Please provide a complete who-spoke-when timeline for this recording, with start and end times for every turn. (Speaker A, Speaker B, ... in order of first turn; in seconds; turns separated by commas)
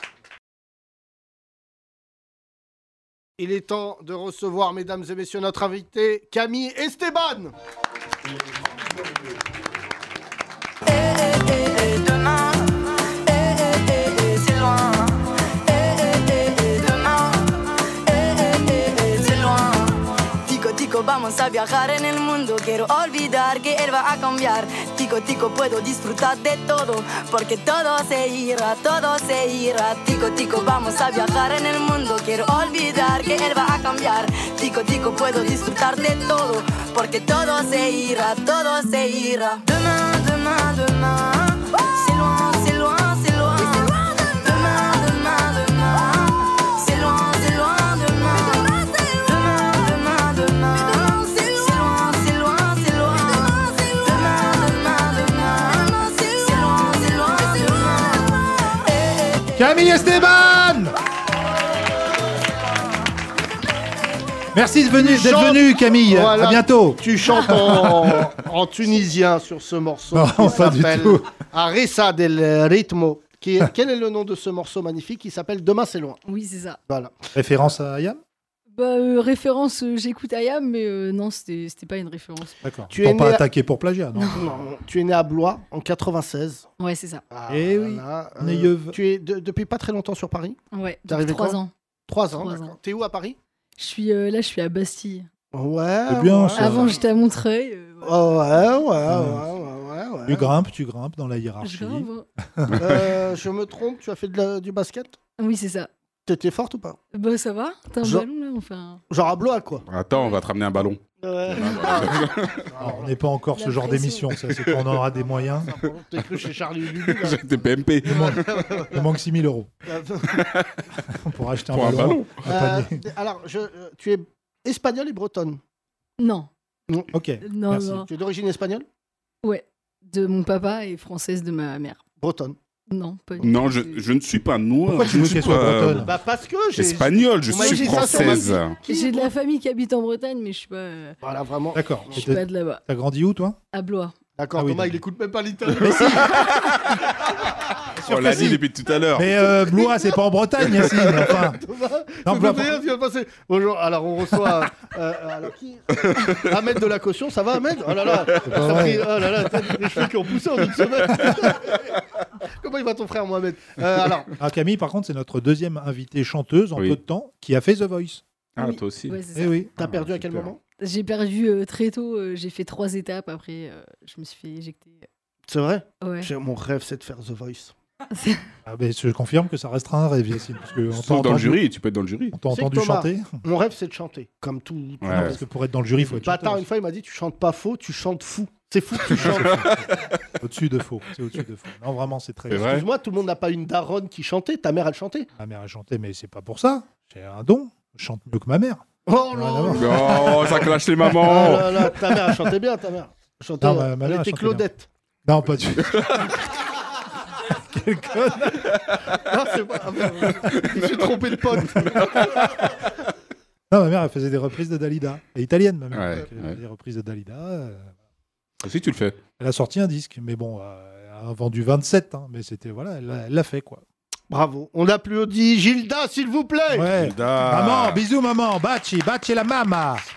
Speaker A: 3.4-7.5, Speaker B: 10.9-59.5, Speaker C: 59.5-61.0, Speaker C: 64.5-68.3, Speaker A: 64.9-76.2, Speaker C: 70.1-71.3, Speaker D: 76.3-76.8, Speaker A: 76.9-77.2, Speaker C: 77.3-78.2, Speaker D: 78.7-82.6, Speaker C: 82.6-84.4, Speaker A: 82.9-83.5, Speaker A: 84.3-86.7, Speaker D: 86.8-87.2, Speaker A: 87.3-93.4, Speaker C: 87.5-89.0, Speaker D: 90.7-91.7, Speaker D: 92.3-92.8, Speaker D: 93.8-95.3, Speaker A: 95.5-97.1, Speaker C: 96.1-97.0, Speaker D: 96.5-98.3, Speaker A: 98.0-100.5, Speaker C: 99.1-99.4, Speaker C: 100.3-102.8, Speaker D: 101.6-102.2, Speaker E: 102.7-102.9, Speaker A: 102.8-105.2, Speaker D: 105.4-105.9, Speaker A: 106.3-107.0, Speaker D: 107.1-109.0, Speaker A: 109.1-109.8, Speaker E: 109.9-112.7, Speaker A: 111.2-113.1, Speaker C: 112.8-115.8, Speaker D: 113.5-114.4, Speaker A: 115.1-117.4, Speaker E: 116.9-118.6, Speaker A: 118.0-119.0, Speaker C: 118.1-118.4, Speaker C: 118.9-119.7, Speaker A: 119.9-120.5, Speaker E: 120.4-120.7, Speaker C: 121.1-123.0, Speaker E: 121.7-122.4, Speaker A: 122.4-125.6, Speaker D: 126.2-126.5, Speaker C: 127.1-128.0, Speaker D: 127.4-128.1, Speaker A: 127.8-128.9, Speaker D: 129.4-132.0, Speaker A: 132.2-132.6, Speaker D: 132.9-134.0, Speaker E: 133.4-136.1, Speaker C: 134.8-136.1, Speaker A: 136.1-139.3, Speaker E: 136.8-138.8, Speaker D: 137.5-141.2, Speaker A: 141.2-142.4, Speaker C: 141.8-143.6, Speaker D: 142.1-142.8, Speaker D: 143.7-144.2, Speaker A: 144.4-146.4, Speaker C: 144.6-145.0, Speaker E: 145.8-147.0, Speaker C: 148.0-151.6, Speaker E: 148.1-149.9, Speaker A: 151.6-161.9, Speaker C: 152.2-152.8, Speaker C: 158.4-159.2, Speaker A: 162.6-164.3, Speaker C: 164.4-168.2, Speaker E: 168.6-169.2, Speaker D: 168.6-169.7, Speaker C: 169.3-169.7, Speaker A: 169.8-170.6, Speaker E: 169.8-170.5, Speaker D: 170.8-175.1, Speaker A: 175.5-177.7, Speaker D: 176.0-176.3, Speaker D: 178.2-178.4, Speaker C: 178.7-181.6, Speaker E: 180.9-182.3, Speaker C: 182.3-183.4, Speaker A: 182.5-185.4, Speaker E: 185.0-185.4, Speaker C: 185.1-186.7, Speaker A: 186.0-189.6, Speaker C: 189.1-192.8, Speaker E: 189.2-189.9, Speaker E: 192.5-192.8, Speaker A: 192.5-195.3, Speaker C: 195.4-202.4, Speaker A: 199.1-204.9, Speaker E: 199.7-201.9, Speaker C: 203.6-204.7, Speaker C: 205.2-206.4, Speaker C: 207.7-208.6, Speaker A: 209.2-212.5, Speaker E: 210.5-210.8, Speaker C: 213.7-217.9, Speaker E: 215.9-216.6, Speaker E: 218.6-219.2, Speaker C: 219.4-223.8, Speaker A: 224.3-226.9, Speaker C: 226.7-230.0, Speaker E: 226.9-228.0